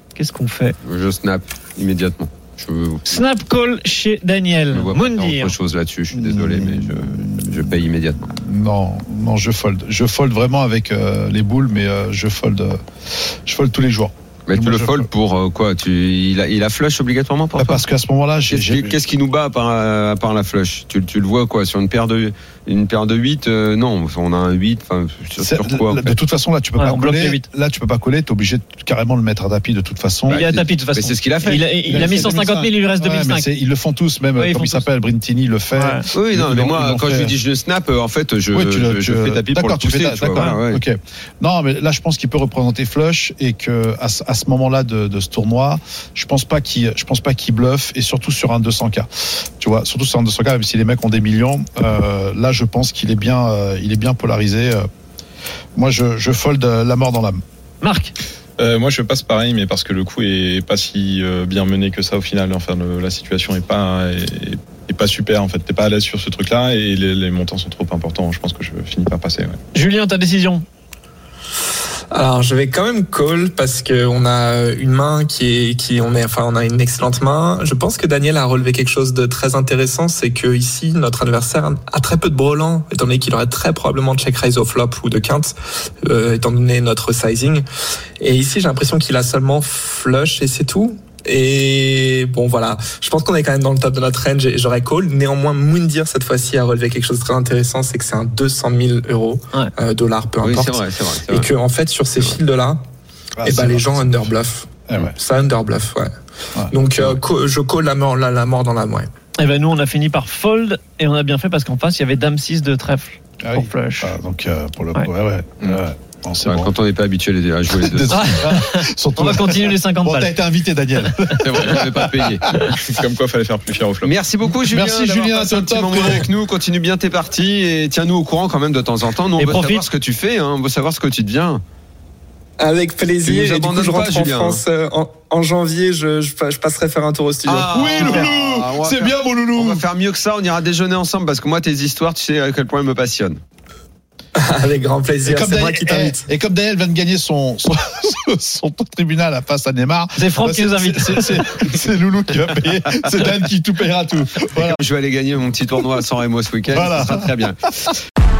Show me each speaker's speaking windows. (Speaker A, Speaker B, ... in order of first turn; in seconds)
Speaker A: 0.1-0.8, 3.1-5.5, 26.8-27.4, 30.3-33.5, 34.4-34.9, 35.7-36.0, 57.8-58.1, 69.7-70.6, 109.4-114.1, 118.1-120.3, 129.3-129.8, 150.2-151.4
Speaker B: 0.8-3.2, 4.7-8.3, 14.5-17.8, 18.5-26.1, 30.3-32.4, 36.1-40.8, 100.4-101.5, 116.4-118.4, 121.4-122.7, 124.0-131.6, 133.2-134.6, 137.4-143.4, 154.6-157.7
Speaker C: 6.1-7.6, 8.3-15.1, 17.6-19.0, 25.4-30.4, 31.9-37.4, 38.5-54.9, 55.8-57.4, 103.4-104.3, 104.9-105.1, 113.4-116.7, 117.7-122.3, 124.6-126.3, 137.7-139.8, 145.2-154.8, 156.7-157.5
Speaker D: 58.6-69.6, 122.6-124.2
Speaker E: 72.1-87.6, 88.2-102.8, 103.4-106.1, 106.7-109.1, 132.6-138.3, 144.3-146.2